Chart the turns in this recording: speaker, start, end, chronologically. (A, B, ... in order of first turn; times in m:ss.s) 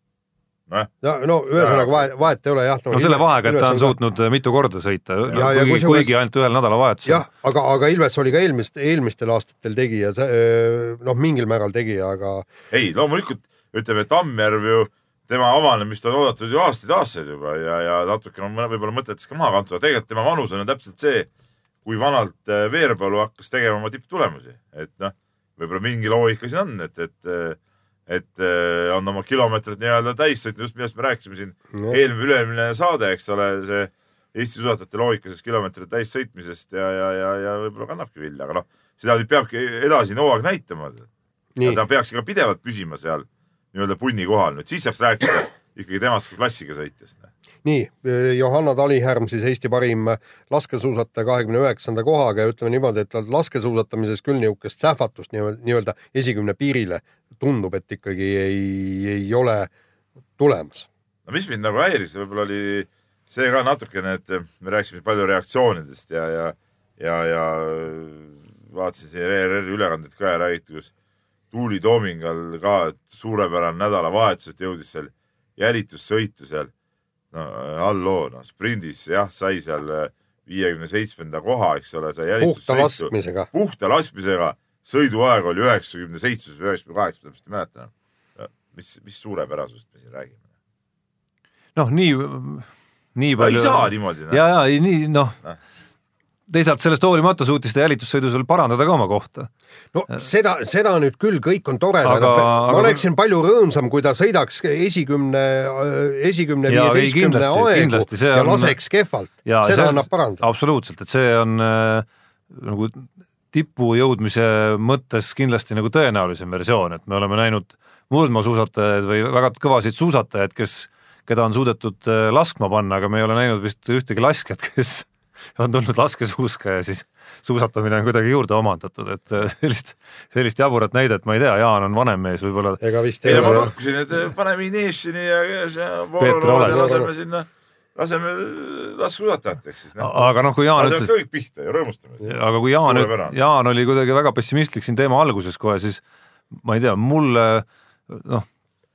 0:01.0-0:04.0 A
0:01.5-0:02.1 B
0:02.9-0:07.3 C
0:05.3-0:06.1 A
0:07.0-0:12.5 A
0:12.7-0:21.3 B
0:21.8-0:27.6 B
0:28.1-0:41.1 B
0:31.7-0:32.0 A
0:41.6-0:47.3 B
0:47.6-0:59.7 A
1:00.4-1:00.9 A
1:01.3-1:10.9 B
1:11.5-1:16.7 B
1:17.3-1:30.4 B
1:22.4-1:23.5 A
1:31.8-1:35.4 C
1:33.4-1:34.4 B
1:36.5-1:39.5 C
1:39.9-1:50.4 A
1:42.0-1:43.0 C
1:46.7-1:48.8 C
1:49.4-2:13.7 C
2:12.8-2:13.7 A
2:13.2-2:20.2 B
2:16.2-2:16.9 C
2:16.6-2:17.1 A
2:20.0-2:21.1 C
2:20.8-2:22.3 B
2:22.2-2:26.0 C
2:22.8-2:23.4 B
2:26.5-2:28.5 C